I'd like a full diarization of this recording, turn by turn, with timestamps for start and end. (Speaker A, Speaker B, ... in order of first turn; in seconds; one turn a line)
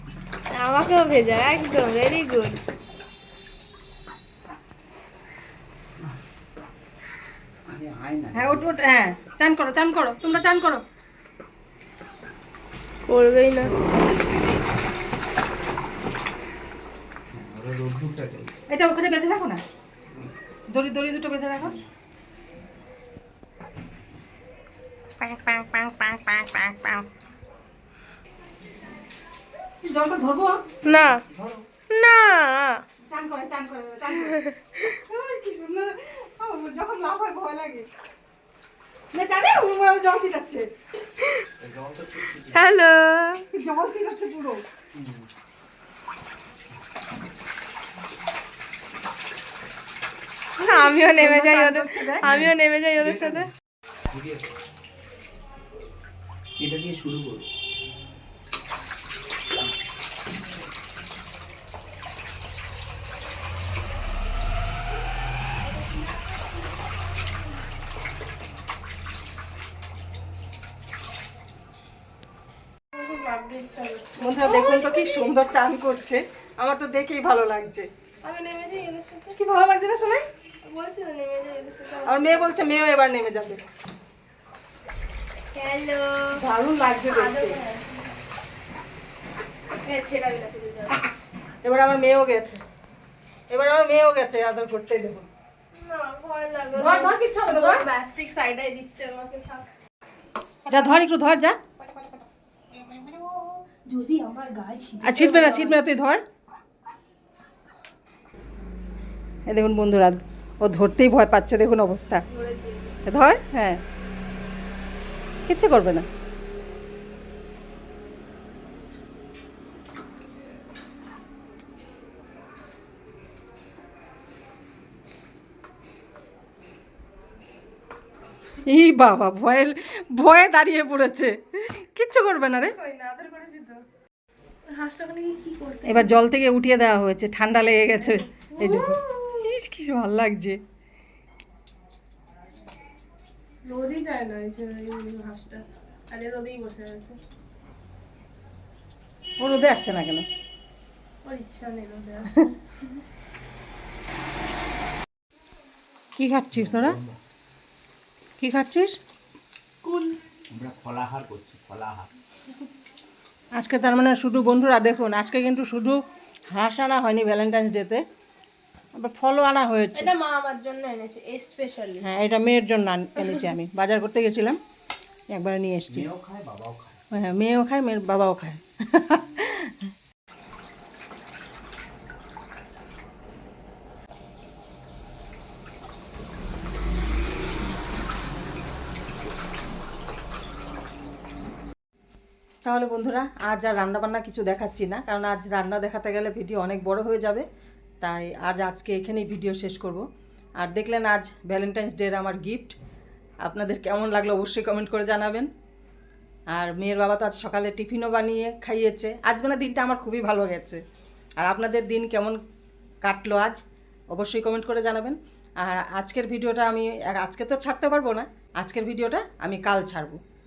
Speaker A: 0.5-2.6
Speaker B: 7.7-8.7
Speaker C: 8.3-10.8
Speaker A: 13.0-13.7
Speaker B: 17.3-18.6
Speaker C: 18.7-19.6
Speaker C: 20.7-21.8
Speaker B: 21.6-21.8
Speaker A: 25.2-27.1
Speaker C: 29.8-30.7
Speaker A: 30.8-31.2
Speaker B: 30.9-31.7
Speaker A: 31.9-32.8
Speaker C: 33.0-37.9
Speaker A: 34.2-34.6
Speaker C: 39.1-40.7
Speaker B: 41.6-42.6
Speaker A: 42.5-43.4
Speaker C: 43.5-44.6
Speaker B: 44.9-45.3
Speaker C: 50.6-52.5
Speaker A: 50.6-53.5
Speaker B: 53.0-53.4
Speaker B: 54.1-54.4
Speaker B: 56.6-57.5
Speaker A: 72.9-75.3
Speaker C: 74.2-77.9
Speaker A: 78.2-79.4
Speaker C: 79.3-80.2
Speaker A: 80.6-82.5
Speaker C: 82.0-83.6
Speaker A: 85.5-86.4
Speaker C: 86.4-87.6
Speaker A: 87.0-88.1
Speaker A: 89.8-91.1
Speaker C: 91.6-92.6
Speaker C: 93.5-95.2
Speaker A: 95.7-99.7
Speaker C: 96.7-97.8
Speaker C: 100.7-101.6
Speaker A: 102.8-105.8
Speaker C: 105.0-106.2
Speaker C: 109.5-112.2
Speaker A: 112.3-113.0
Speaker C: 113.0-113.8
Speaker C: 115.5-116.1
Speaker C: 128.7-132.8
Speaker A: 132.7-133.8
Speaker A: 134.7-136.2
Speaker C: 135.8-140.6
Speaker A: 138.0-139.3
Speaker A: 143.6-147.2
Speaker C: 149.4-150.2
Speaker A: 151.2-152.5
Speaker C: 156.2-157.0
Speaker B: 156.5-157.2
Speaker C: 158.4-158.9
Speaker A: 159.8-160.2
Speaker B: 160.5-162.1
Speaker C: 163.6-168.0
Speaker C: 168.9-170.1
Speaker A: 169.9-172.0
Speaker C: 172.0-174.6
Speaker C: 175.3-176.1
Speaker B: 175.9-177.1
Speaker C: 177.1-179.9
Speaker C: 192.6-197.4
Speaker C: 198.0-200.0
Speaker C: 200.6-202.8
Speaker C: 203.4-205.5
Speaker C: 206.5-210.8
Speaker C: 211.4-212.4
Speaker C: 213.0-213.6
Speaker C: 214.1-220.2